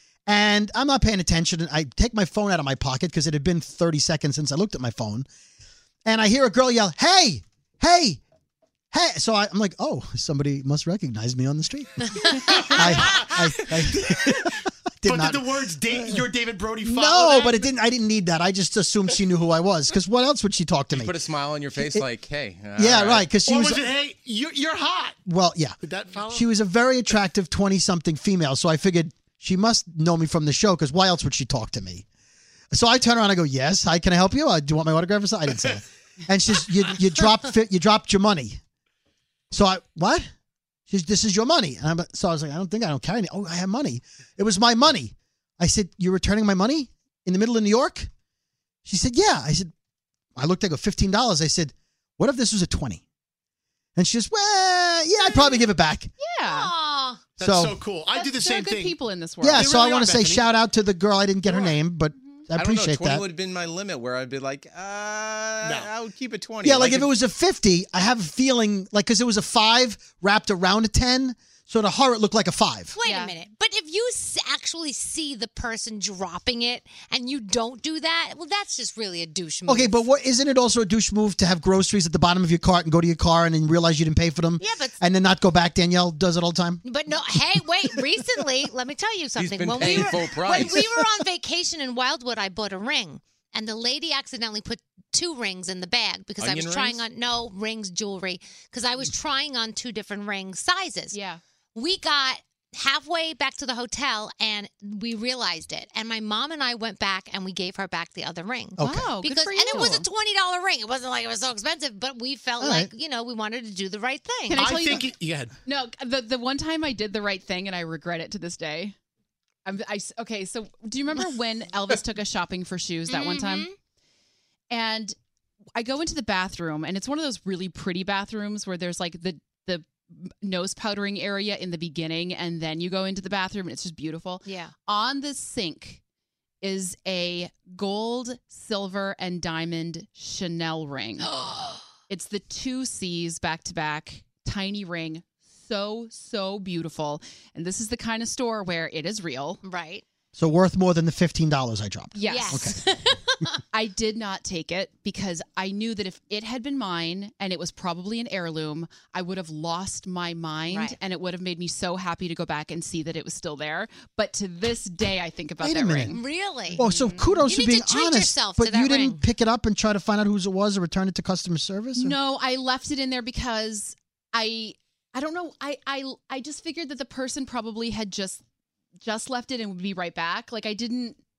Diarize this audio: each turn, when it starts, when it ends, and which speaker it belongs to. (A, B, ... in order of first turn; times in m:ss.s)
0:00.3-0:05.3 A
0:06.1-0:08.2 A
0:08.9-0:12.1 A
0:12.3-0:17.7 B
0:12.6-0:16.2 A
0:16.8-0:22.1 A
0:20.9-0:23.3 C
0:22.7-0:23.9 A
0:23.4-0:25.2 B
0:25.3-0:32.0 A
0:25.8-0:26.5 B
0:32.7-0:38.6 A
0:39.5-0:40.2 A
0:40.9-0:48.1 A
0:48.9-0:49.7 A
0:50.4-0:53.0 A
0:54.0-0:56.1 A
0:56.2-0:56.7 D
0:56.4-0:57.2 E
0:57.4-1:00.6 B
0:57.4-0:57.8 A
0:58.2-0:59.7 D
0:59.4-1:03.3 A
1:01.5-1:01.8 B
1:02.5-1:07.1 C
1:05.6-1:06.0 B
1:06.6-1:12.9 A
1:13.0-1:20.1 E
1:13.0-1:13.3 D
1:19.7-1:26.8 A
1:24.6-1:25.0 E
1:26.8-1:41.2 E
1:29.4-1:30.8 C
1:29.8-1:30.2 A
1:36.4-1:37.0 C
1:41.1-1:41.4 D
1:41.8-1:54.6 E
1:48.8-1:49.1 A
1:48.8-1:50.1 D
1:52.6-1:52.9 A
1:54.5-1:55.1 D
1:54.5-1:55.5 B
1:55.6-1:59.0 D
1:59.6-2:03.7 D
2:03.1-2:03.7 E
2:04.7-2:05.2 D
2:05.8-2:16.0 D
2:14.4-2:14.7 E
2:16.6-2:21.3 D
2:21.2-2:21.8 E
2:22.1-2:29.6 D
2:29.6-2:30.0 E
2:30.4-2:32.8 A
2:32.1-2:33.1 D
2:32.3-2:32.8 E
2:33.7-2:47.4 D
2:40.7-2:41.0 E
2:45.6-2:52.2 A
2:46.1-2:46.8 E
2:47.4-2:49.2 E
2:52.0-2:58.4 D
2:59.0-3:01.2 D